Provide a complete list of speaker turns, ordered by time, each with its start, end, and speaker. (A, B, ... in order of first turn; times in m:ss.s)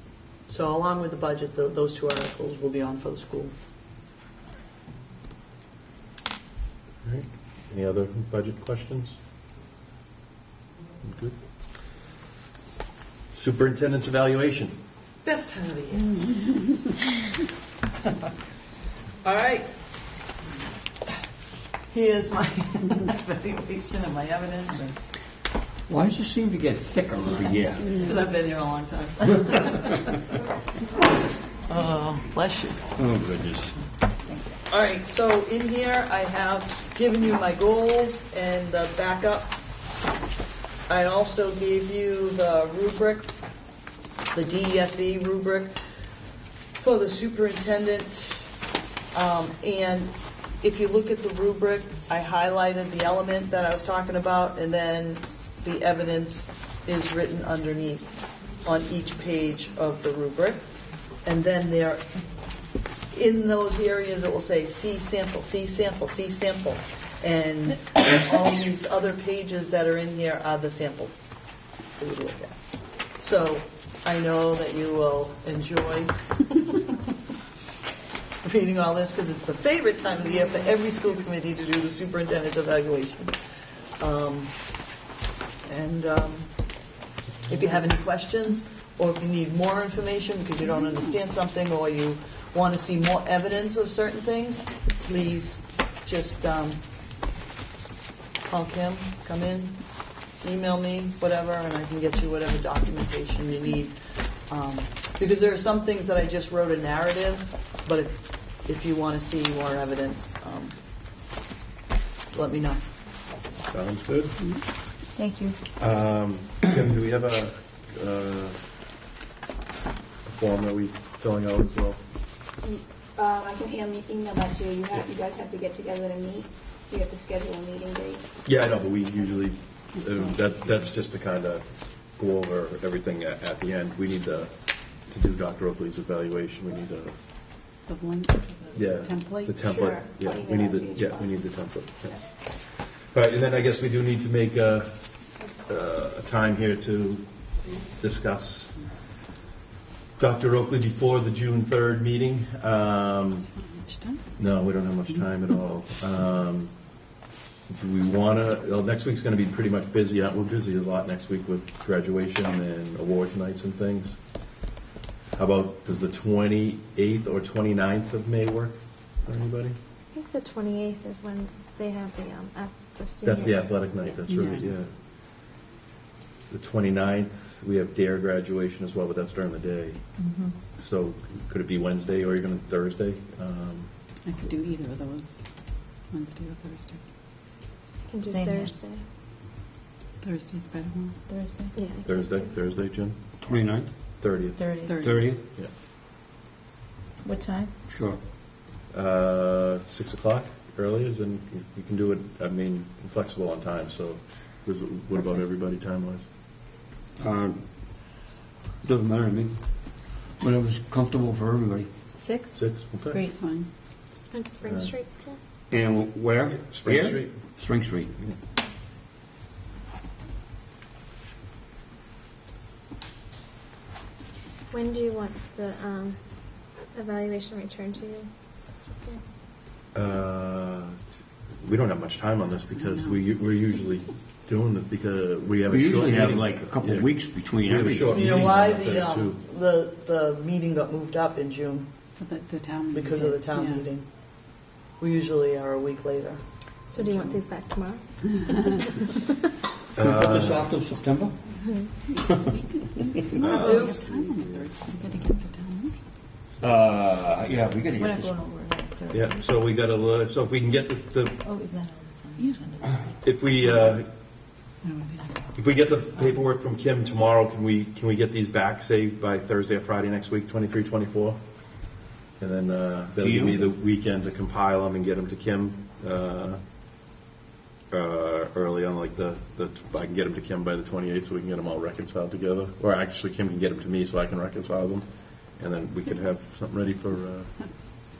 0:00.5-0:03.5 A
0:07.0-0:09.2 B
0:11.0-0:11.3 B
0:13.3-0:14.7 B
0:15.2-0:16.5 A
0:19.2-0:19.7 A
0:21.9-0:25.0 A
0:25.9-0:28.0 C
0:27.9-0:30.2 A
0:31.6-0:32.8 A
0:33.0-0:33.7 C
0:34.7-0:39.6 A
0:40.9-0:43.3 A
0:44.3-0:45.7 A
0:46.8-0:48.5 A
0:49.1-0:58.1 A
0:58.6-1:00.6 A
1:01.2-1:02.1 A
1:03.1-1:11.3 A
1:12.0-1:12.6 A
1:13.2-1:16.9 A
1:18.4-1:23.3 A
1:24.0-1:24.5 A
1:25.6-1:26.5 A
1:27.5-1:36.8 A
1:38.5-1:39.8 A
1:40.4-1:43.9 A
1:44.5-1:50.7 A
1:52.3-1:52.8 A
1:53.7-1:54.4 B
1:55.2-1:55.6 D
1:55.8-1:58.6 B
2:00.2-2:02.0 B
2:02.6-2:08.3 E
2:08.4-2:11.6 B
2:12.1-2:14.5 B
2:15.0-2:17.1 B
2:17.8-2:19.5 F
2:18.7-2:22.2 B
2:19.6-2:21.3 E
2:23.1-2:25.0 B
2:25.6-2:28.7 B
2:30.2-2:33.5 B
2:33.6-2:34.2 F
2:34.4-2:36.9 B
2:37.7-2:44.2 B
2:45.3-2:49.8 B
2:50.1-2:54.1 G
2:53.2-2:54.9 B
2:54.3-2:54.7 F
2:56.5-3:00.0 B
3:00.2-3:00.5 D
3:00.8-3:03.9 B
3:04.2-3:07.0 F
3:08.0-3:09.0 G
3:08.2-3:08.8 D
3:10.2-3:11.2 F
3:11.3-3:11.7 D
3:11.7-3:12.5 G
3:12.0-3:13.2 B
3:13.4-3:13.9 C
3:14.2-3:14.8 B
3:14.6-3:15.1 D
3:14.8-3:15.2 F
3:14.9-3:15.4 C
3:17.2-3:17.6 D
3:17.9-3:18.2 C
3:18.9-3:26.2 B
3:27.2-3:27.6 C
3:28.8-3:31.9 C
3:32.2-3:33.4 D
3:32.5-3:33.3 B
3:33.3-3:33.7 F
3:34.3-3:35.4 G
3:34.6-3:34.9 B
3:35.7-3:38.1 C
3:36.6-3:37.4 B
3:44.7-3:49.2 G
3:49.9-3:51.0 B
3:51.6-3:59.4 B
3:55.7-3:58.5 C
3:58.1-4:01.9 A
4:02.2-4:03.8 F
4:02.9-4:04.1 A
4:05.0-4:07.4 A
4:06.9-4:08.1 G
4:08.8-4:09.1 G
4:10.0-4:10.7 B
4:10.0-4:11.3 C
4:12.1-4:15.9 F
4:12.2-4:12.5 C
4:13.4-4:14.7 B
4:13.5-4:13.8 G
4:13.5-4:14.0 A
4:16.6-4:18.3 C
4:18.0-4:19.4 D
4:19.1-4:21.4 B
4:21.4-4:23.1 D
4:23.2-4:24.1 B
4:24.8-4:25.3 F
4:25.5-4:31.4 B
4:32.4-4:36.6 B
4:33.2-4:33.6 C
4:37.9-4:47.5 B